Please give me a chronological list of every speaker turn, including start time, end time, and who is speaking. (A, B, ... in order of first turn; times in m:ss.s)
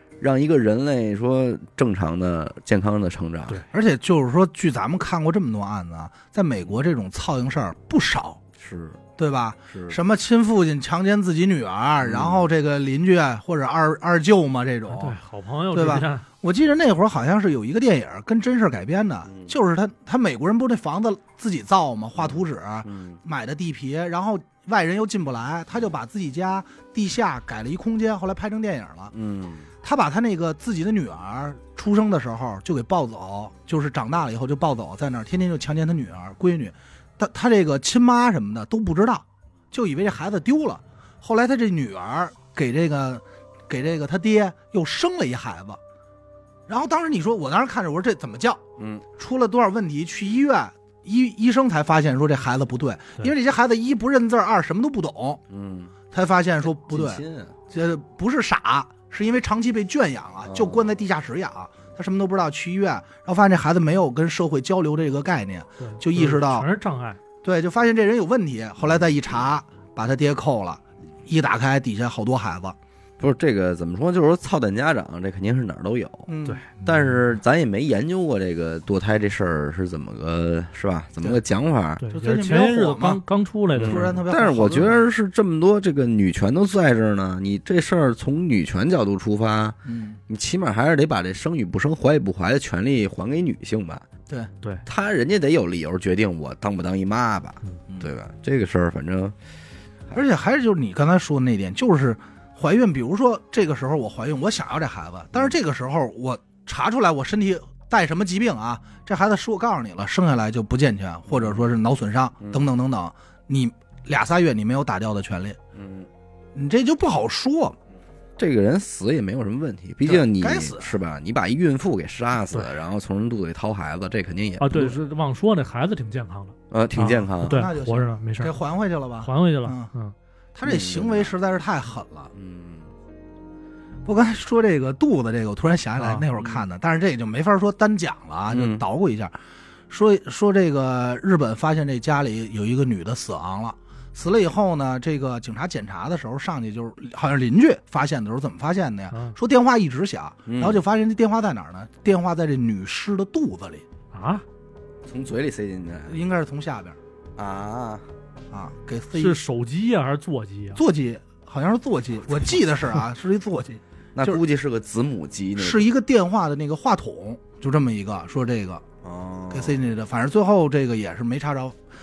0:00.2-0:03.6 A
0:03.7-0:08.4 B
0:08.6-0:09.0 A
0:09.2-0:15.2 B
0:09.7-0:10.0 A
0:12.0-0:12.5 A
0:14.9-0:16.3 C
0:15.7-0:29.1 B
0:19.3-0:19.5 A
0:22.2-0:23.2 A
0:29.1-0:29.7 A
0:29.8-0:45.8 B
0:46.7-0:48.6 B
0:48.8-0:49.0 A
0:49.2-0:55.4 B
0:55.5-0:55.9 A
0:56.1-1:06.7 B
0:56.6-0:57.6 A
1:00.4-1:00.9 A
1:05.8-1:07.2 C
1:07.4-1:12.8 B
1:13.2-1:22.0 A
1:16.3-1:16.6 B
1:16.4-1:17.2 C
1:22.0-1:24.2 C
1:22.1-1:23.2 B
1:23.8-1:34.0 A
1:23.8-1:25.0 B
1:29.8-1:30.2 B
1:34.8-1:39.4 A
1:40.1-1:55.6 B
1:51.3-1:51.6 A
1:55.7-1:56.1 A
1:56.5-1:57.8 B
1:58.4-2:04.9 A
2:00.0-2:01.0 B
2:04.6-2:08.5 C
2:06.7-2:07.6 A
2:07.4-2:09.9 B
2:09.2-2:10.1 C
2:10.5-2:12.3 B
2:10.6-2:11.3 A
2:12.3-2:12.9 A
2:14.0-2:19.4 B
2:16.0-2:16.3 C
2:18.5-2:18.8 A
2:19.9-2:33.8 B
2:29.1-2:29.4 C
2:30.4-2:30.8 A
2:34.1-2:34.4 C
2:35.0-2:36.2 A
2:36.1-2:37.0 B
2:37.4-2:38.1 A
2:38.5-2:39.4 B
2:39.1-2:40.8 C
2:40.8-2:44.4 B
2:44.2-2:45.9 A
2:45.6-2:48.8 B
2:49.0-2:49.8 A
2:49.5-2:51.8 B